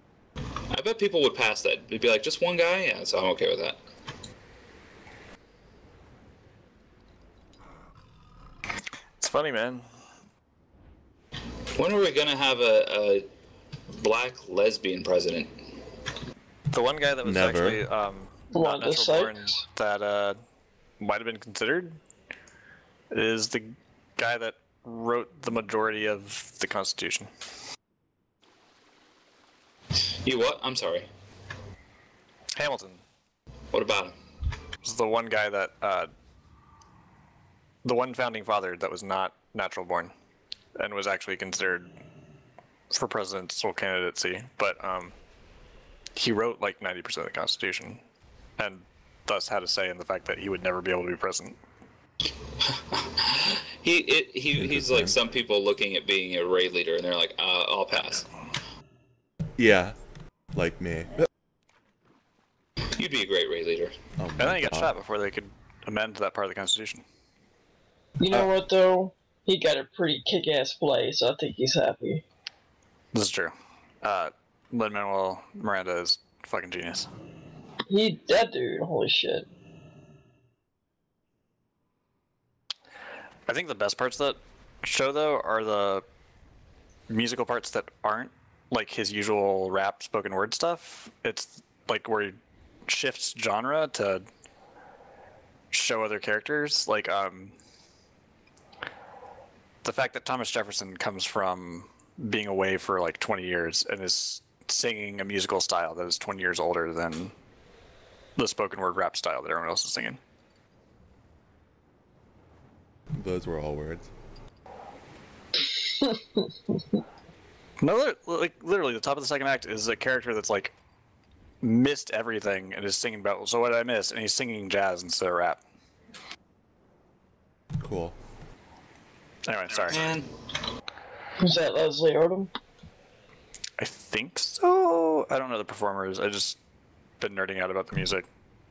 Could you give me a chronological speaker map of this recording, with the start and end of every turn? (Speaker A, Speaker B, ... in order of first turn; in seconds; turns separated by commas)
Speaker A: 0.7-3.8, Speaker B: 9.2-9.9, Speaker A: 11.8-13.3, Speaker A: 14.0-15.6, Speaker B: 16.7-20.4, Speaker C: 17.2-17.8, Speaker D: 18.5-19.6, Speaker B: 21.0-22.0, Speaker B: 23.1-27.3, Speaker A: 30.2-31.1, Speaker B: 32.5-33.0, Speaker A: 33.7-34.1, Speaker B: 34.8-36.1, Speaker B: 37.8-40.1, Speaker B: 40.8-41.9, Speaker B: 42.9-45.1, Speaker B: 46.1-48.0, Speaker B: 48.6-51.5, Speaker A: 52.6-58.2, Speaker C: 54.5-55.2, Speaker C: 59.6-60.0, Speaker C: 60.5-61.3, Speaker A: 63.0-63.9, Speaker C: 64.2-64.9, Speaker B: 64.4-67.0, Speaker D: 68.2-72.2, Speaker B: 73.1-77.1, Speaker D: 77.9-79.5, Speaker B: 83.5-86.0, Speaker B: 87.1-94.2, Speaker B: 95.7-97.5, Speaker B: 99.8-107.3, Speaker B: 108.4-110.2, Speaker C: 113.1-114.1, Speaker D: 115.6-117.0, Speaker B: 117.8-120.7, Speaker B: 121.6-125.6, Speaker C: 127.8-128.2, Speaker B: 129.4-130.0, Speaker A: 129.9-130.3, Speaker D: 131.4-132.5, Speaker B: 133.8-136.6, Speaker B: 137.2-138.3